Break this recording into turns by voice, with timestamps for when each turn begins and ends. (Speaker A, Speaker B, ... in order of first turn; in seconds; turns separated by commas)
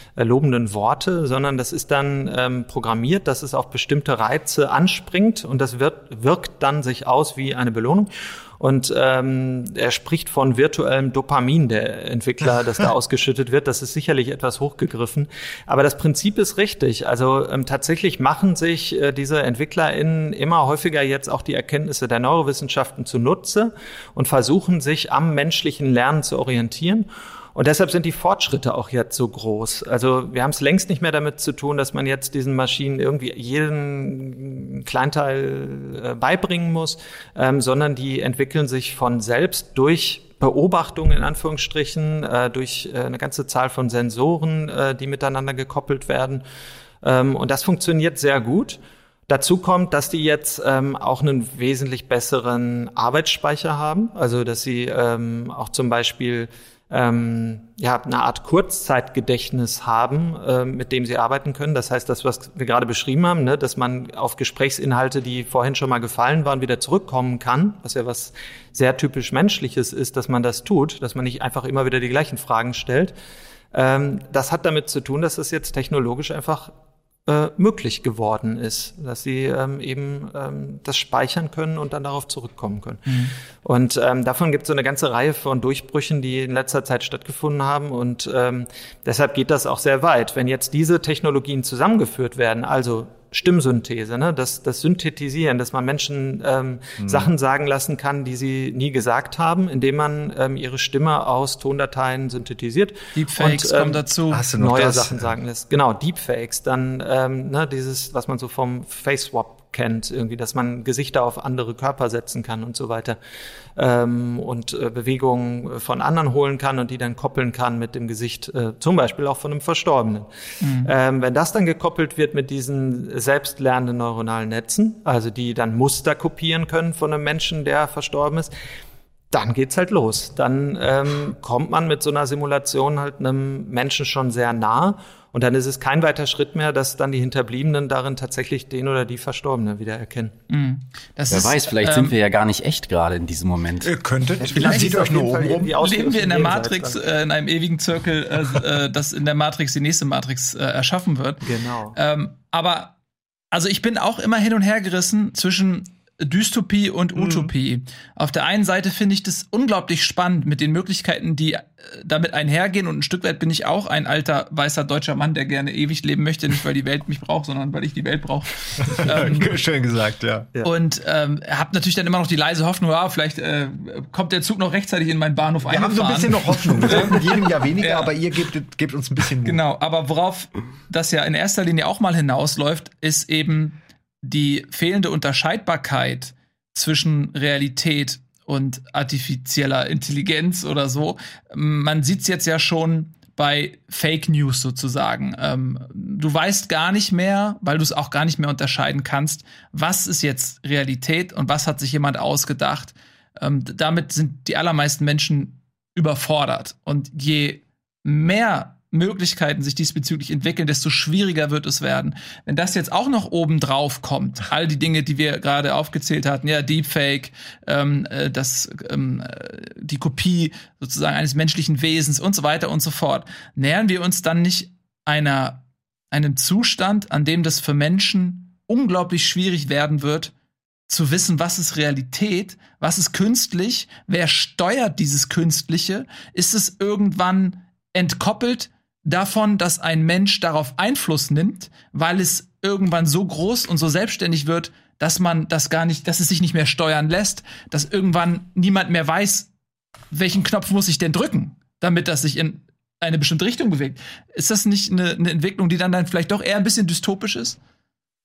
Speaker A: 0.2-46.4, Speaker A: 47.0-73.1, Speaker A: 73.7-76.7, Speaker A: 77.3-113.2, Speaker B: 83.1-83.3, Speaker C: 97.0-97.3, Speaker B: 103.1-104.5, Speaker C: 104.3-105.3, Speaker A: 113.8-120.3, Speaker B: 120.6-120.9, Speaker A: 120.8-128.5, Speaker A: 129.3-140.3, Speaker B: 140.5-142.1, Speaker D: 141.3-143.9, Speaker C: 143.8-145.7, Speaker A: 144.4-147.0, Speaker B: 144.6-145.0, Speaker B: 145.8-152.9, Speaker A: 151.4-152.0, Speaker B: 153.5-169.6, Speaker C: 168.8-170.5, Speaker B: 170.6-178.1, Speaker C: 175.6-179.6, Speaker B: 179.4-230.3, Speaker B: 230.9-249.5, Speaker B: 250.1-257.6